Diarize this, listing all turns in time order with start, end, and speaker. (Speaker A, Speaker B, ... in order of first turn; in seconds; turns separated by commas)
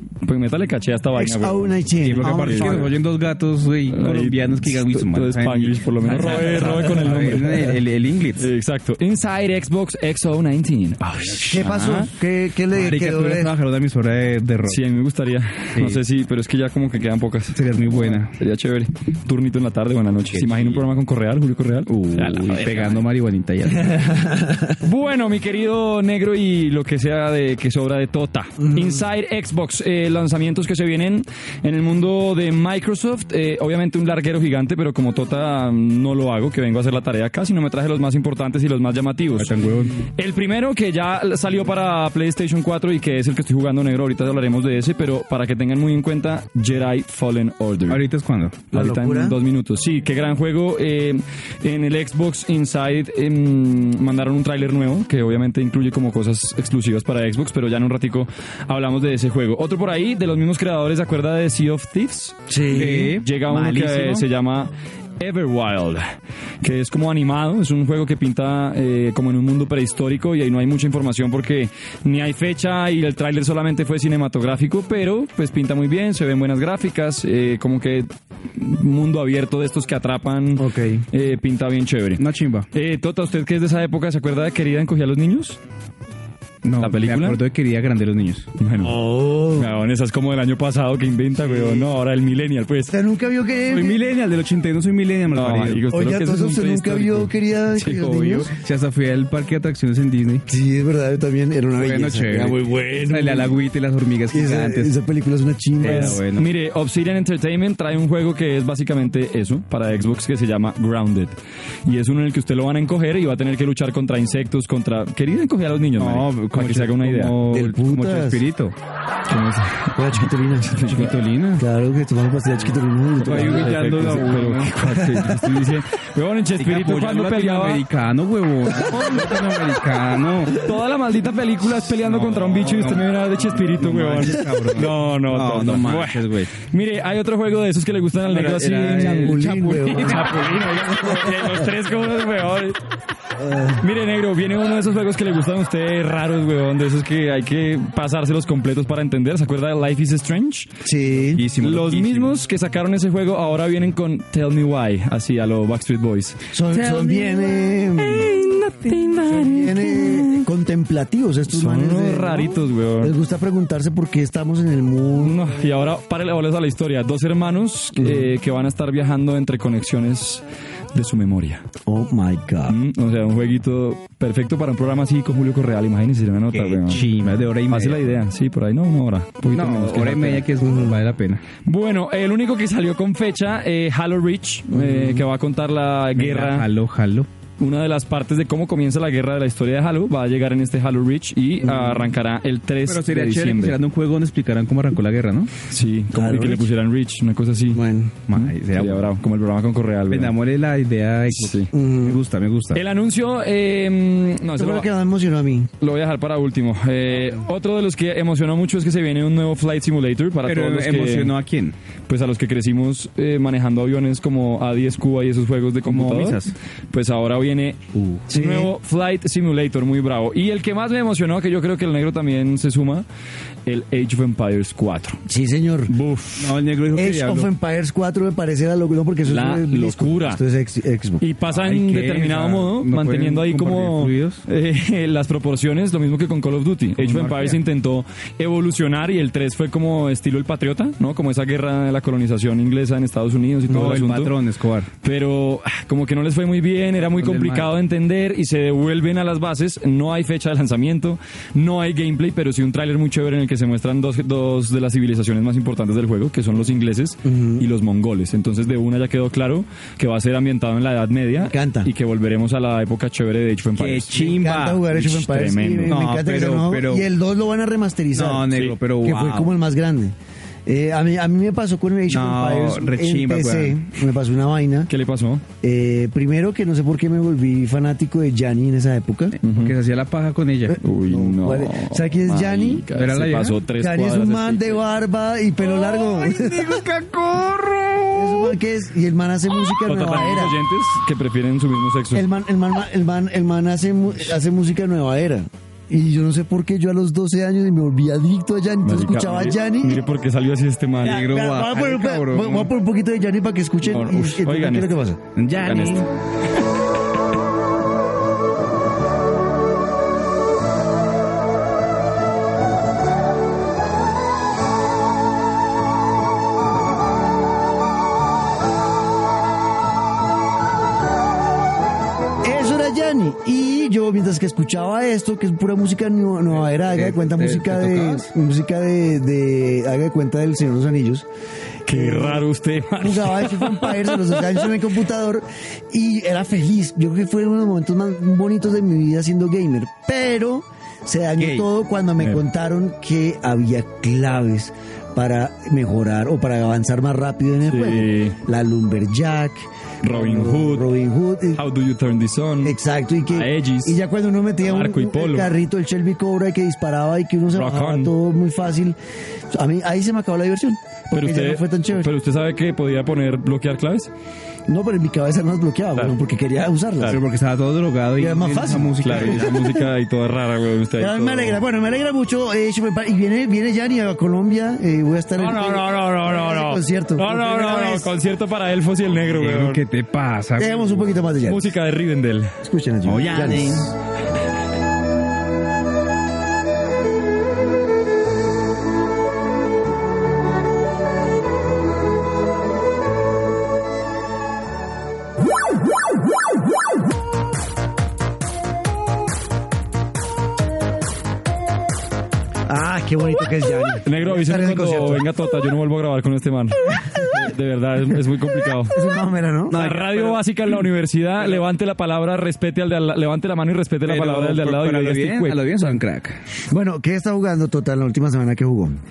Speaker A: 0.2-1.7, Speaker B: 1.1-2.9, Speaker C: 2.0-8.5, Speaker A: 2.2-2.9, Speaker A: 3.9-7.8, Speaker A: 8.4-12.0, Speaker C: 11.4-12.1, Speaker B: 11.5-13.5, Speaker C: 12.7-14.8, Speaker A: 14.7-17.6, Speaker C: 15.7-16.0, Speaker C: 17.5-18.3, Speaker A: 18.2-23.0, Speaker C: 20.3-20.8, Speaker C: 21.9-24.1, Speaker B: 23.8-24.8, Speaker A: 24.8-39.5, Speaker C: 39.4-40.1, Speaker A: 40.1-48.0, Speaker C: 47.9-48.6, Speaker B: 48.7-49.4, Speaker A: 48.7-85.6, Speaker B: 62.5-63.1, Speaker C: 62.7-64.2, Speaker B: 80.6-81.0, Speaker C: 82.2-82.7, Speaker C: 86.6-88.5, Speaker A: 86.8-87.4, Speaker A: 88.6-89.0, Speaker B: 88.8-89.7, Speaker A: 89.5-92.9, Speaker B: 92.9-94.0, Speaker C: 93.7-95.8, Speaker A: 95.3-98.0, Speaker B: 95.9-98.5, Speaker C: 97.8-100.5, Speaker B: 100.5-103.6, Speaker C: 101.8-104.9, Speaker B: 104.3-106.2, Speaker C: 105.8-106.5, Speaker A: 105.8-117.4, Speaker C: 116.0-118.7, Speaker B: 117.5-118.4, Speaker A: 119.3-121.2, Speaker B: 120.0-120.8, Speaker C: 120.8-121.6, Speaker B: 121.6-123.7, Speaker A: 123.2-127.8, Speaker C: 123.2-124.8, Speaker B: 124.9-125.3, Speaker C: 126.6-130.6, Speaker B: 128.9-129.2, Speaker A: 130.5-142.8, Speaker C: 131.9-136.5, Speaker C: 138.2-140.4, Speaker B: 139.0-141.7, Speaker B: 143.4-143.8, Speaker A: 143.8-150.7, Speaker B: 150.8-151.4, Speaker C: 151.2-152.3, Speaker A: 151.6-156.5, Speaker B: 156.5-158.4, Speaker C: 156.7-157.4, Speaker A: 157.9-160.4, Speaker B: 159.1-165.4, Speaker A: 161.5-163.1, Speaker A: 165.2-171.7, Speaker B: 168.0-168.3, Speaker B: 171.8-172.8, Speaker A: 172.7-177.0, Speaker C: 176.5-178.1, Speaker A: 177.7-180.4, Speaker C: 179.5-181.4, Speaker B: 180.6-180.9, Speaker A: 181.6-186.7, Speaker C: 186.2-187.3, Speaker A: 187.6-193.8, Speaker B: 191.7-192.0, Speaker C: 192.8-195.5, Speaker A: 195.7-200.3, Speaker B: 196.1-196.7, Speaker B: 197.7-198.2, Speaker C: 198.3-199.1, Speaker C: 200.1-202.8, Speaker A: 201.3-201.7, Speaker B: 201.7-202.2, Speaker A: 202.7-204.9, Speaker B: 204.6-205.7, Speaker A: 205.8-211.3, Speaker C: 210.4-211.7, Speaker A: 212.1-216.4, Speaker C: 215.8-216.5, Speaker A: 216.9-223.1, Speaker C: 217.9-218.2, Speaker B: 218.3-218.7, Speaker A: 223.7-225.2, Speaker B: 225.3-225.9, Speaker A: 225.9-226.5, Speaker C: 226.4-227.5, Speaker B: 226.9-231.2, Speaker A: 229.2-230.4, Speaker A: 231.2-244.4, Speaker C: 231.5-234.4, Speaker C: 237.0-237.6, Speaker C: 243.7-244.9, Speaker A: 245.0-264.2, Speaker C: 247.2-247.7, Speaker B: 257.2-257.6, Speaker B: 261.4-261.9, Speaker C: 263.8-264.9, Speaker B: 264.2-270.1, Speaker A: 264.9-266.0, Speaker C: 265.9-267.1, Speaker C: 268.1-269.5, Speaker B: 270.6-274.9, Speaker C: 272.1-273.8, Speaker A: 274.9-275.4, Speaker B: 275.6-279.4, Speaker A: 279.4-279.7, Speaker C: 279.4-280.8, Speaker B: 280.7-282.9, Speaker A: 280.8-284.8, Speaker C: 282.9-283.6, Speaker B: 283.7-286.9, Speaker C: 285.6-288.5, Speaker B: 288.1-290.6, Speaker A: 289.8-292.3, Speaker B: 292.1-300.0, Speaker A: 298.8-301.2, Speaker C: 301.0-302.7, Speaker B: 301.1-305.2, Speaker A: 303.9-304.9, Speaker C: 305.3-306.1, Speaker A: 305.6-306.0, Speaker B: 322.4-331.3, Speaker C: 326.9-328.3, Speaker B: 331.9-332.4, Speaker A: 331.9-334.4, Speaker B: 333.0-351.6, Speaker C: 341.4-341.7, Speaker A: 347.7-348.4, Speaker A: 350.0-350.9, Speaker A: 351.6-352.8, Speaker B: 352.6-359.0, Speaker A: 353.3-354.0, Speaker A: 354.6-355.5, Speaker A: 357.5-358.1, Speaker B: 359.5-362.1, Speaker A: 361.1-364.1, Speaker B: 364.7-367.2, Speaker C: 367.1-369.6, Speaker B: 368.2-369.8, Speaker A: 369.0-371.6, Speaker B: 371.0-378.1, Speaker A: 375.4-379.8, Speaker C: 379.3-380.9, Speaker B: 380.6-381.7, Speaker A: 381.4-382.5, Speaker B: 382.6-383.9, Speaker C: 383.1-383.9, Speaker B: 402.7-405.2, Speaker A: 404.0-409.0, Speaker B: 408.9-409.8, Speaker C: 409.7-410.4, Speaker A: 409.7-416.0, Speaker C: 414.0-416.4, Speaker B: 416.7-419.0